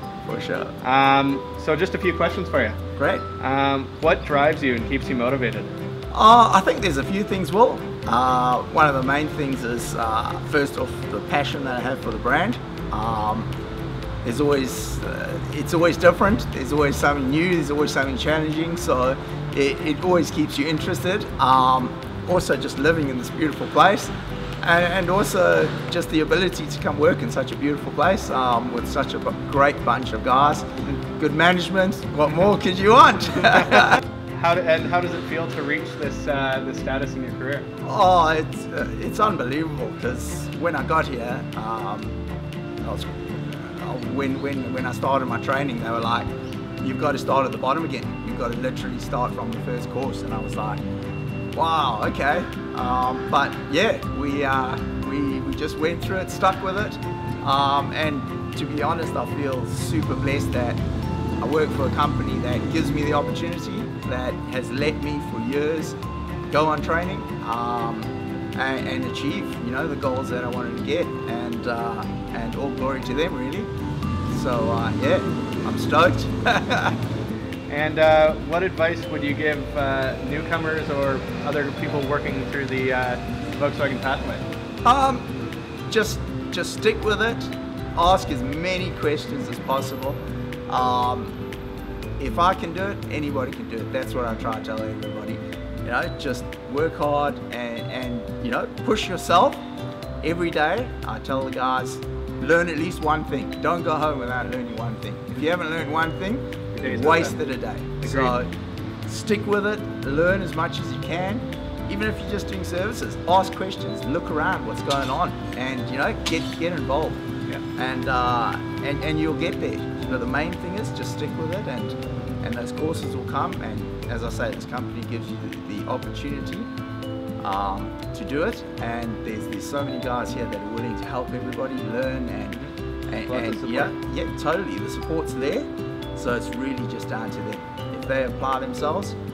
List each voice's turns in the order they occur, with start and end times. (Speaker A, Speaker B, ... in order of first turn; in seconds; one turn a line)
Speaker A: 0.3-0.8
Speaker B: 0.8-2.8
Speaker A: 3.0-3.3
Speaker B: 3.4-5.7
Speaker A: 6.1-13.5
Speaker A: 14.2-34.0
Speaker B: 33.7-37.7
Speaker A: 37.8-42.2
Speaker A: 42.8-46.3
Speaker A: 46.8-50.9
Speaker A: 51.5-60.8
Speaker A: 61.4-66.0
Speaker A: 66.5-73.7
Speaker A: 74.3-77.0
Speaker B: 77.7-84.4
Speaker A: 84.8-85.3
Speaker A: 85.9-91.3
Speaker A: 92.2-99.6
Speaker A: 100.2-108.5
Speaker B: 106.7-107.4
Speaker B: 108.0-108.4
Speaker A: 109.1-117.2
Speaker A: 117.8-126.7
Speaker A: 127.4-139.2
Speaker B: 133.3-133.9